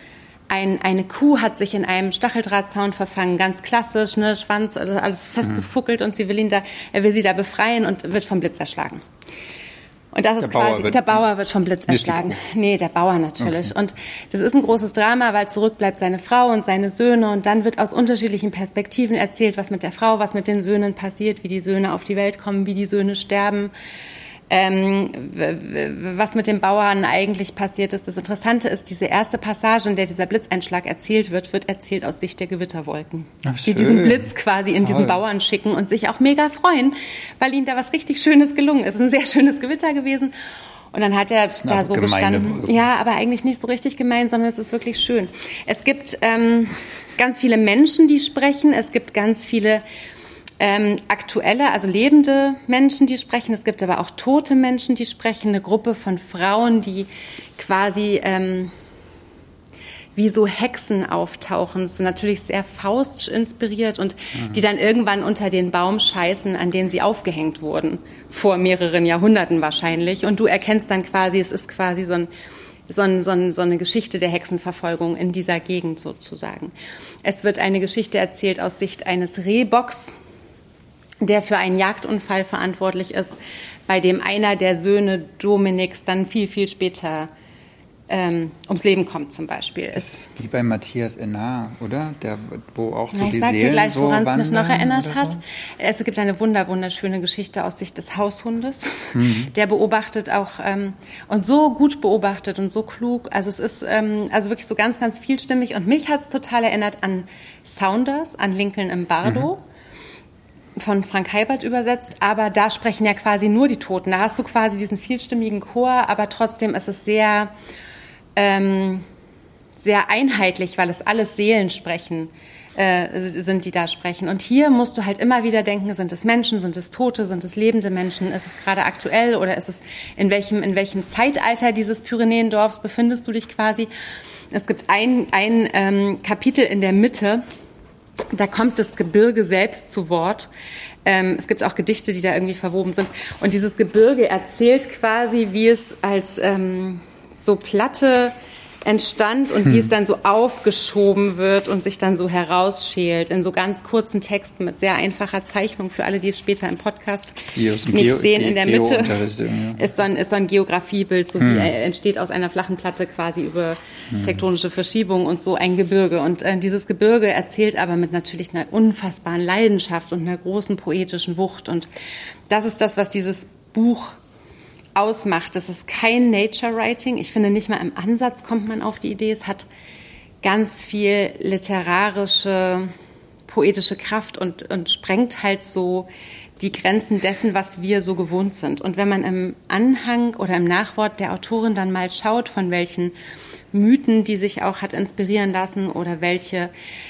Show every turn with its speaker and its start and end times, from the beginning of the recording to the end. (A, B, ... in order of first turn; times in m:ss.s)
0:00.5-0:09.0 A
0:10.1-0:23.7 A
0:10.4-0:11.2 B
0:11.9-0:12.4 B
0:13.4-0:13.7 B
0:24.5-0:40.3 A
0:33.4-0:35.2 B
0:40.9-0:49.8 A
0:41.6-0:42.8 B
0:50.6-0:58.7 A
1:00.2-1:12.3 A
1:04.4-1:04.6 B
1:12.9-1:16.7 A
1:17.2-1:20.1 A
1:21.2-1:27.3 A
1:28.1-1:30.2 A
1:29.9-1:35.4 B
1:33.1-1:49.6 A
1:39.2-1:39.5 B
1:50.8-1:57.5 A
1:58.4-1:59.1 A
1:59.8-2:13.9 A
2:14.5-2:17.4 A
2:18.3-2:20.5 A
2:21.0-2:37.4 A
2:37.4-2:39.8 B
2:37.9-2:39.2 A
2:39.8-2:51.9 A
2:41.4-2:41.7 B
2:44.1-2:44.4 B
2:52.5-2:54.2 A
2:55.0-2:59.7 A
3:00.4-3:02.9 A
3:03.5-3:13.1 A
3:13.7-3:16.7 A